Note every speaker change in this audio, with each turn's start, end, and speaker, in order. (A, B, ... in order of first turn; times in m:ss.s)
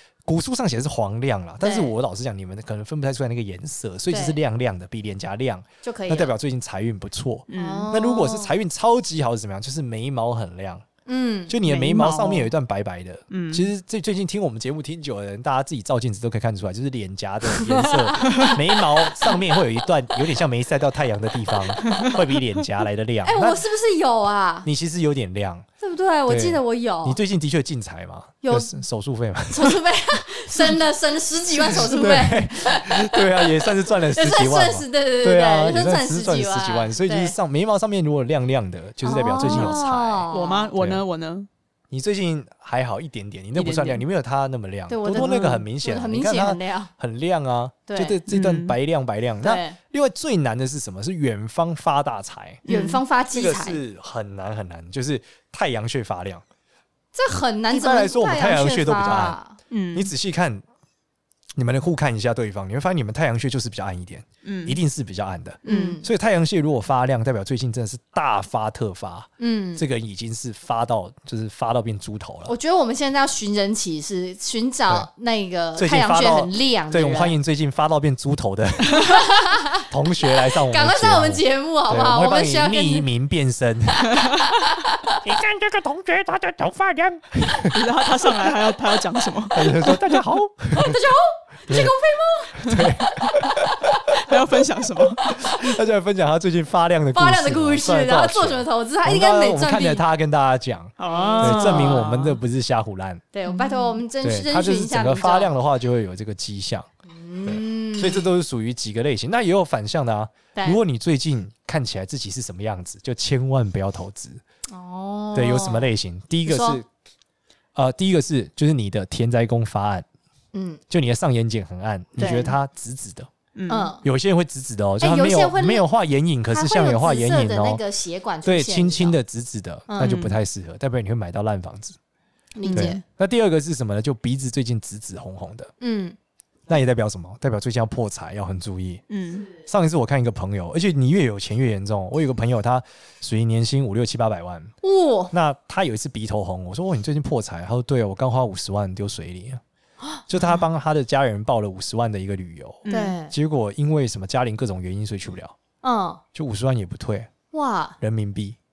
0:00.2-0:10.8 A
0:01.6-0:01.9 B
0:04.1-0:04.4 B
0:05.8-0:06.3 B
0:07.5-0:07.9 C
0:07.5-0:08.5 B
0:11.1-0:11.5 B
0:11.5-0:23.6 A
0:11.6-0:12.5 C
0:13.3-0:13.7 C
0:17.6-0:18.8 B
0:23.2-0:24.7 B
0:24.6-0:25.7 A
0:25.8-0:27.2 B
0:26.3-0:29.8 A
0:28.4-0:28.8 B
0:29.5-0:37.4 B
0:31.5-0:41.0 A
0:39.0-0:40.7 B
0:39.4-0:39.8 C
0:40.3-0:41.5 C
0:41.9-0:52.6 A
0:43.6-0:44.0 C
0:44.9-0:46.9 B
0:45.1-0:45.6 C
0:47.9-0:48.2 B
0:48.3-0:48.8 C
0:49.4-0:49.8 B
0:52.6-0:53.0 C
0:52.7-0:53.8 B
0:53.3-0:56.4 A
0:57.1-0:59.6 B
0:57.7-0:59.4 A
0:59.7-1:00.1 C
0:59.9-1:00.6 A
1:01.6-1:12.5 A
1:04.4-1:04.8 C
1:05.6-1:06.0 C
1:05.6-1:06.1 B
1:09.4-1:09.8 B
1:12.5-1:17.4 B
1:15.8-1:24.3 A
1:19.0-1:23.1 B
1:25.2-1:27.8 A
1:27.7-1:30.2 C
1:29.5-1:31.0 A
1:30.8-1:32.9 B
1:31.7-1:31.9 A
1:32.6-1:34.2 A
1:34.2-1:35.3 C
1:35.3-1:43.3 A
1:37.1-1:40.0 B
1:41.0-1:42.4 C
1:41.1-1:42.1 B
1:43.3-1:45.5 B
1:43.5-1:44.0 C
1:44.2-1:46.9 A
1:47.1-1:48.3 B
1:47.5-1:54.4 A
1:50.6-1:50.8 B
1:54.7-1:55.9 B
1:55.3-1:56.9 A
1:56.5-1:56.8 B
1:57.8-2:00.1 A
2:00.5-2:00.8 B
2:00.9-2:03.3 A
2:02.2-2:02.6 B
2:03.6-2:03.9 C
2:03.7-2:04.0 B
2:04.0-2:07.8 A
2:05.0-2:05.9 B
2:06.5-2:09.2 B
2:08.4-2:12.0 A
2:09.9-2:10.3 B
2:10.0-2:10.4 C
2:12.6-2:13.0 B
2:12.6-2:13.0 C
2:12.7-2:15.7 A
2:15.8-2:16.2 B
2:16.7-2:24.7 A
2:19.1-2:19.5 C
2:24.8-2:25.3 B
2:25.3-2:29.6 A
2:30.3-2:35.6 A
2:32.9-2:33.2 C
2:32.9-2:33.3 B
2:35.8-2:36.2 B
2:36.3-2:37.3 A
2:37.5-2:38.0 B
2:38.0-2:38.6 A